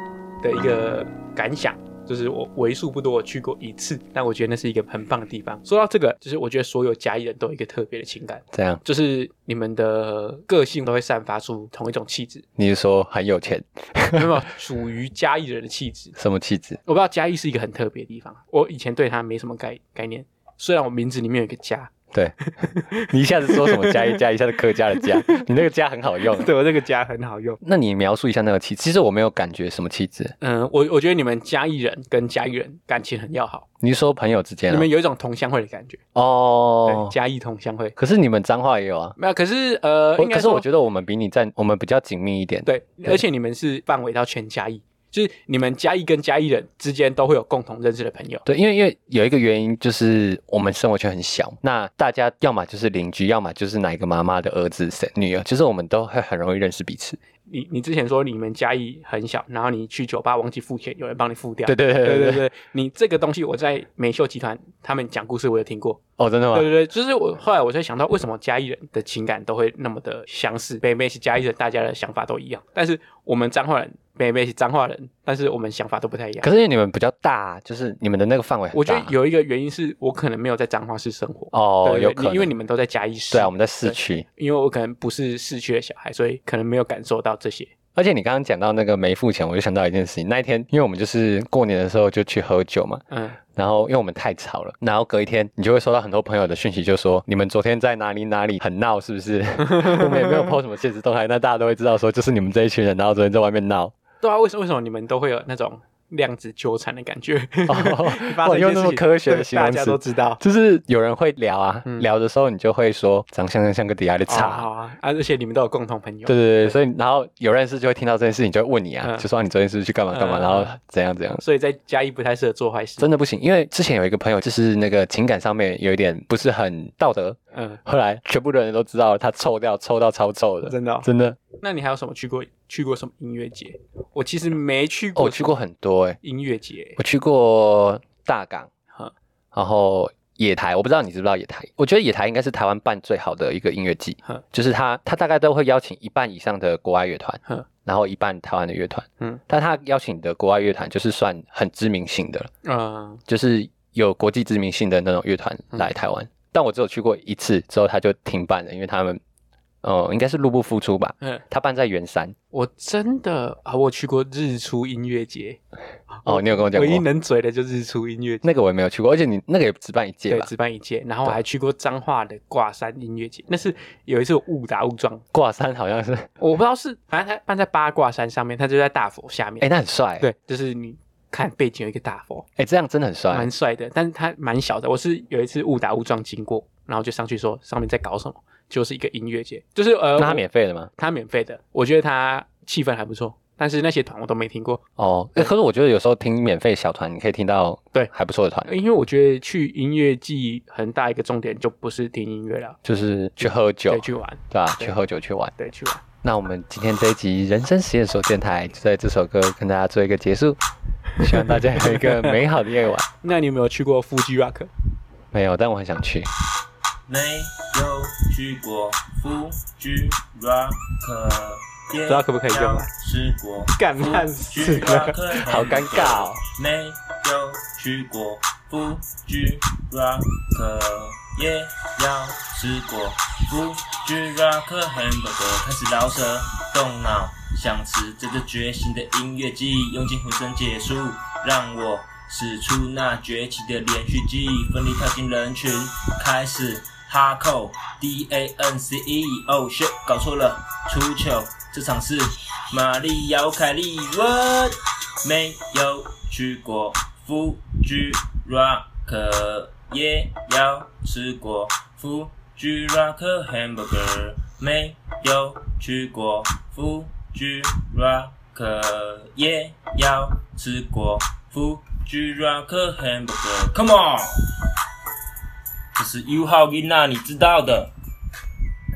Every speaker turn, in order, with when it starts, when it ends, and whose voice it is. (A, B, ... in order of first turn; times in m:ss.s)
0:00.4-0:12.4 A
0:08.5-0:08.8 B
0:12.6-0:14.3 B
0:14.1-0:16.2 A
0:16.2-0:16.8 B
0:16.8-0:21.9 A
0:22.6-0:24.2 A
0:22.9-0:26.5 B
0:25.0-0:25.5 A
0:26.2-0:27.6 A
0:27.6-0:30.4 B
0:30.4-0:33.6 A
0:33.8-0:34.9 B
0:34.7-0:36.0 A
0:36.2-0:37.1 B
0:36.8-0:38.0 A
0:38.0-0:39.2 B
0:39.2-0:40.7 A
0:40.2-0:43.2 B
0:42.7-0:48.4 A
0:48.5-0:57.2 B
0:57.5-1:06.0 A
1:01.7-1:02.4 B
1:06.2-1:06.7 B
1:06.5-1:16.5 A
1:16.4-1:19.1 B
1:18.7-1:27.7 A
1:21.5-1:22.5 B
1:23.3-1:24.3 B
1:28.0-1:33.0 B
1:33.1-1:33.4 A
1:33.5-1:43.9 B
1:39.6-1:40.6 A
1:44.2-1:50.4 A
1:47.7-1:54.7 B
1:54.3-1:56.8 A
1:56.3-2:01.4 B
2:00.1-2:00.8 A
2:01.4-2:03.1 A
2:03.0-2:11.4 B
2:07.5-2:07.8 A
2:10.6-2:15.6 A
2:15.2-2:16.2 B
2:16.2-2:17.0 A
2:17.0-2:18.7 B
2:19.5-2:32.5 B
2:32.6-2:33.2 A
2:33.3-2:39.2 B
2:39.8-2:42.4 B
2:42.5-2:48.4 A
2:46.3-2:47.0 B
2:48.4-2:50.5 B
2:50.3-2:55.2 A
2:55.3-2:56.3 B
2:56.4-3:02.5 A
2:59.6-3:00.3 B
3:02.6-3:03.5 B
3:03.3-3:10.4 A
3:10.2-3:10.9 B
3:11.0-3:14.8 A
3:15.0-3:18.7 B
3:18.6-3:22.8 A
3:22.8-3:25.5 B
3:23.4-3:25.0 A
3:25.6-3:26.0 A
3:26.2-3:30.6 B
3:31.2-3:32.4 A
3:31.2-3:33.1 B
3:33.2-3:34.7 A
3:35.3-3:36.3 B
3:37.1-4:34.5 C
3:42.1-3:42.9 A
3:43.8-3:45.2 A
3:45.3-3:46.4 B
4:36.0-4:37.9 C